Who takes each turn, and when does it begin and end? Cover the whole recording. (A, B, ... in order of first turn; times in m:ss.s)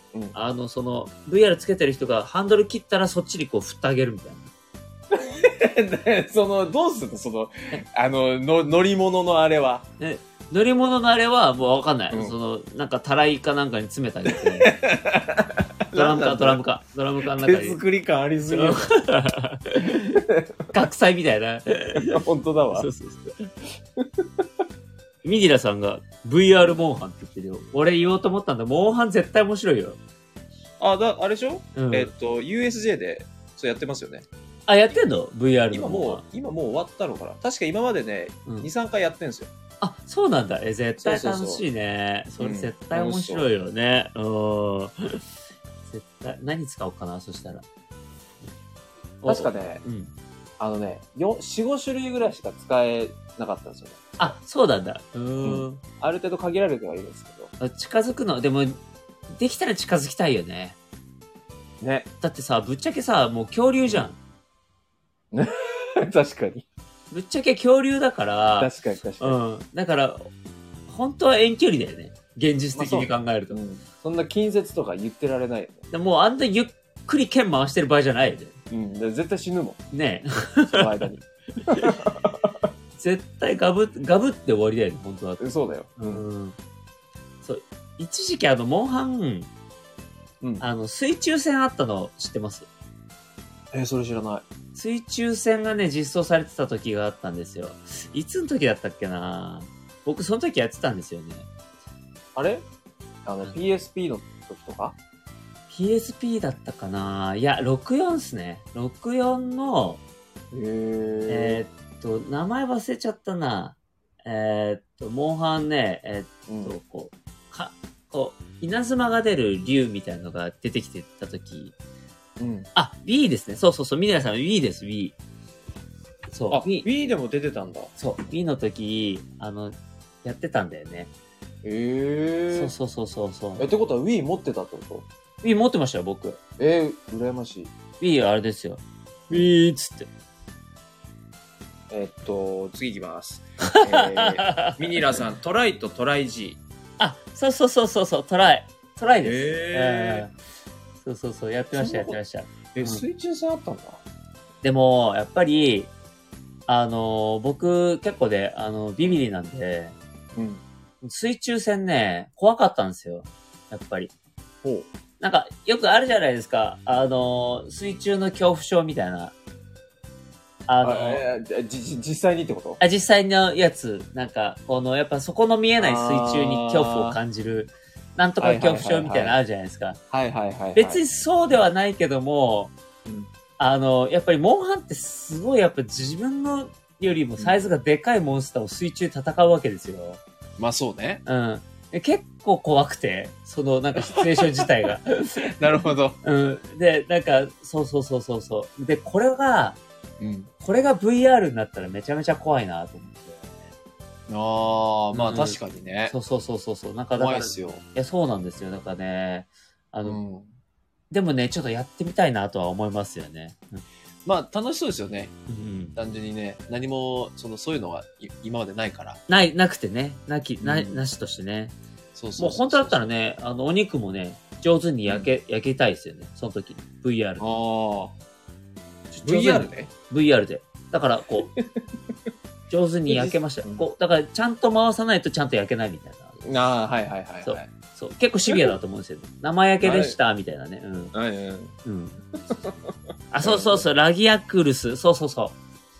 0:00.3-0:04.5 A
0:05.1-0:09.8 B
0:10.0-0:14.7 A
0:14.3-0:16.6 B
0:15.9-0:17.8 A
0:17.4-0:18.9 B
0:18.5-0:22.2 A
0:20.1-0:20.5 B
0:22.1-0:22.9 B
0:22.7-0:23.5 A
0:24.0-0:24.4 B
0:25.2-0:30.0 A
0:30.8-0:34.2 B
0:31.8-0:32.1 A
0:34.7-0:36.2 A
0:35.7-0:39.5 B
0:39.8-0:45.2 A
0:41.0-0:41.6 B
0:42.4-0:43.5 B
0:45.9-0:47.6 A
0:49.2-0:50.1 A
0:49.2-0:49.8 B
0:50.6-0:54.4 B
0:54.2-0:55.8 A
0:55.4-0:57.5 B
0:57.6-0:58.8 A
0:59.3-1:00.8 A
1:01.8-1:02.1 B
1:02.2-1:04.2 A
1:05.3-1:06.6 B
1:07.1-1:10.3 A
1:08.6-1:09.4 B
1:10.9-1:13.6 A
1:12.7-1:15.9 B
1:15.9-1:18.6 A
1:18.7-1:19.8 B
1:19.9-1:21.0 A
1:20.6-1:22.6 B
1:21.7-1:22.0 A
1:23.0-1:25.4 A
1:25.4-1:26.2 B
1:26.0-1:26.6 A
1:27.4-1:29.5 A
1:30.6-1:32.7 A
1:33.7-1:34.4 B
1:34.7-1:41.5 A
1:42.3-1:42.7 B
1:43.2-1:44.9 B
1:45.7-1:50.0 A
1:50.5-1:51.6 B
1:51.3-2:01.7 A
1:56.5-1:56.8 B
2:02.4-2:02.7 B
2:02.7-2:05.2 A
2:06.3-2:06.9 A
2:06.5-2:07.9 B
2:08.0-2:11.1 A
2:11.6-2:12.7 B
2:12.5-2:13.7 A
2:13.6-2:15.1 B
2:15.4-2:16.4 A
2:16.6-2:17.7 B
2:18.0-2:20.1 A
2:21.9-2:26.6 B
2:23.6-2:25.2 A
2:27.0-2:30.3 A
2:29.2-2:30.3 B
2:31.0-2:33.0 A
2:31.7-2:32.2 B
2:32.7-2:34.0 B
2:34.6-2:35.9 A
2:36.7-2:40.0 A
2:40.4-2:40.6 B
2:41.0-2:44.1 A
2:44.6-2:44.9 B
2:45.2-2:49.3 A
2:50.7-2:51.2 A
2:50.8-2:52.8 B
2:52.8-3:00.0 A
2:55.8-2:57.2 B
2:58.4-2:59.4 B
3:00.1-3:01.0 B
3:00.8-3:02.7 A
3:03.6-3:10.2 A
3:07.4-3:07.7 B
3:10.6-3:11.2 B
3:11.2-3:15.5 A
3:14.0-3:14.7 B
3:15.6-3:16.2 B
3:16.2-3:19.8 A
3:20.2-3:20.5 B
3:20.6-3:23.5 A
3:24.3-3:26.1 B
3:25.1-3:30.2 A
3:27.2-3:27.8 B
3:30.0-3:30.5 B
3:31.1-3:33.8 A
3:34.2-3:35.3 B
3:35.5-3:36.0 A
3:36.0-3:39.2 B
3:39.3-3:41.7 A
3:40.6-3:41.0 B
3:42.1-3:43.1 B
3:42.4-3:47.4 A
3:47.4-3:48.1 B
3:49.1-3:51.5 A
3:49.2-3:49.9 B
3:52.7-3:56.4 A
3:53.1-3:53.8 B
3:56.4-3:57.7 B
3:57.4-4:01.1 A
3:58.5-3:58.7 B
3:59.8-4:00.2 B
4:01.1-4:01.8 B
4:01.8-4:02.2 A
4:02.5-4:02.8 B
4:03.3-4:05.6 A
4:03.4-4:03.9 B